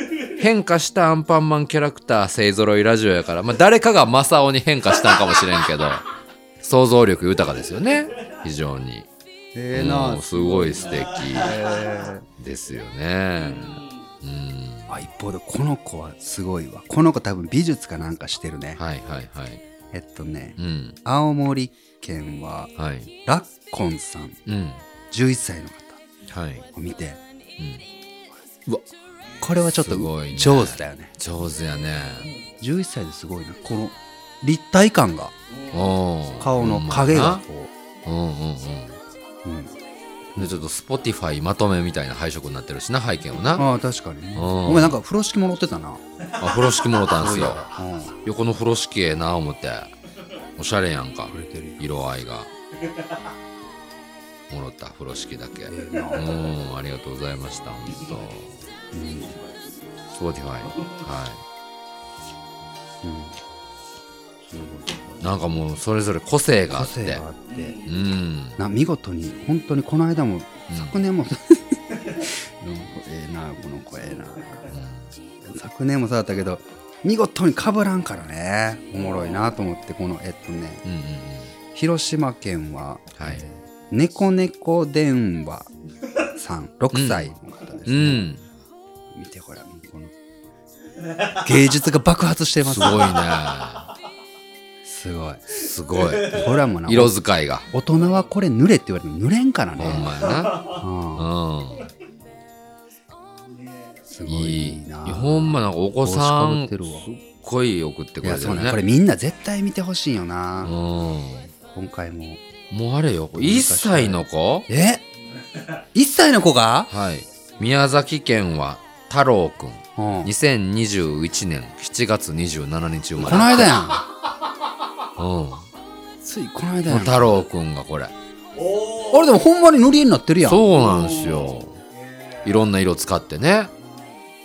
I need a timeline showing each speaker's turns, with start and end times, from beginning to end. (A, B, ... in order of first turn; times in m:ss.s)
0:00.3-0:06.0 A
0:06.6-0:09.1 A
0:09.6-0:12.2 B
0:09.7-0:11.7 A
0:10.8-0:12.0 C
0:12.4-0:14.9 A
0:13.4-0:14.1 C
0:14.9-0:18.8 B
0:18.8-0:19.6 A
0:19.9-0:22.7 B
0:20.6-0:21.0 A
0:22.8-0:23.1 A
0:23.2-0:24.4 B
0:24.5-0:24.8 A
0:25.1-0:26.0 B
0:26.3-0:26.7 A
0:26.7-0:27.2 B
0:27.6-0:27.8 A
0:29.4-0:31.1 B
0:29.6-0:32.4 A
0:32.2-0:32.5 C
0:32.6-0:35.3 B
0:35.5-0:36.0 C
0:35.7-0:37.4 A
0:36.4-0:37.7 B
0:38.0-0:39.0 A
0:39.4-0:39.7 B
0:40.4-0:43.7 A
0:43.6-0:46.0 B
0:44.4-0:45.0 A
0:46.4-0:47.0 C
0:46.4-0:47.6 A
0:47.1-0:48.2 B
0:48.2-0:49.9 A
0:50.6-0:52.5 A
0:51.3-0:51.9 B
0:54.5-0:58.5 A
0:55.7-0:56.3 B
0:58.9-0:59.3 B
0:59.1-0:59.8 C
1:00.1-1:01.4 A
1:00.6-1:01.0 C
1:03.0-1:03.4 B
1:04.5-1:05.2 B
1:05.2-1:07.2 A
1:06.7-1:07.8 B
1:07.5-1:07.9 C
1:07.8-1:08.6 A
1:08.6-1:14.7 B
1:14.7-1:15.1 A
1:15.4-1:20.8 B
1:19.0-1:19.5 C
1:20.8-1:21.5 A
1:21.7-1:25.7 B
1:23.2-1:23.4 A
1:26.3-1:28.3 B
1:26.9-1:27.4 A
1:27.9-1:28.4 A
1:29.1-1:30.1 B
1:31.3-1:33.2 B
1:32.6-1:33.9 A
1:34.8-1:35.4 B
1:35.5-1:37.7 A
1:36.0-1:36.5 C
1:36.3-1:37.2 B
1:37.7-1:41.3 B
1:38.0-1:38.2 C
1:39.8-1:41.9 A
1:40.1-1:40.8 C
1:43.5-1:44.0 C
1:44.1-1:47.1 B
1:44.3-1:48.8 A
1:48.2-1:50.7 B
1:50.6-1:51.5 A
1:51.7-1:52.4 B
1:52.7-1:54.7 A
1:53.3-1:55.0 B
1:55.9-1:56.9 B
1:56.9-2:03.9 A
2:00.0-2:00.3 B
2:03.2-2:04.1 B
2:05.2-2:05.7 A
2:06.2-2:07.4 B
2:06.9-2:08.1 A
2:08.6-2:09.4 C
2:09.1-2:10.6 B
2:10.4-2:11.8 A
2:10.8-2:12.6 C
2:12.4-2:13.7 A
2:13.8-2:14.2 C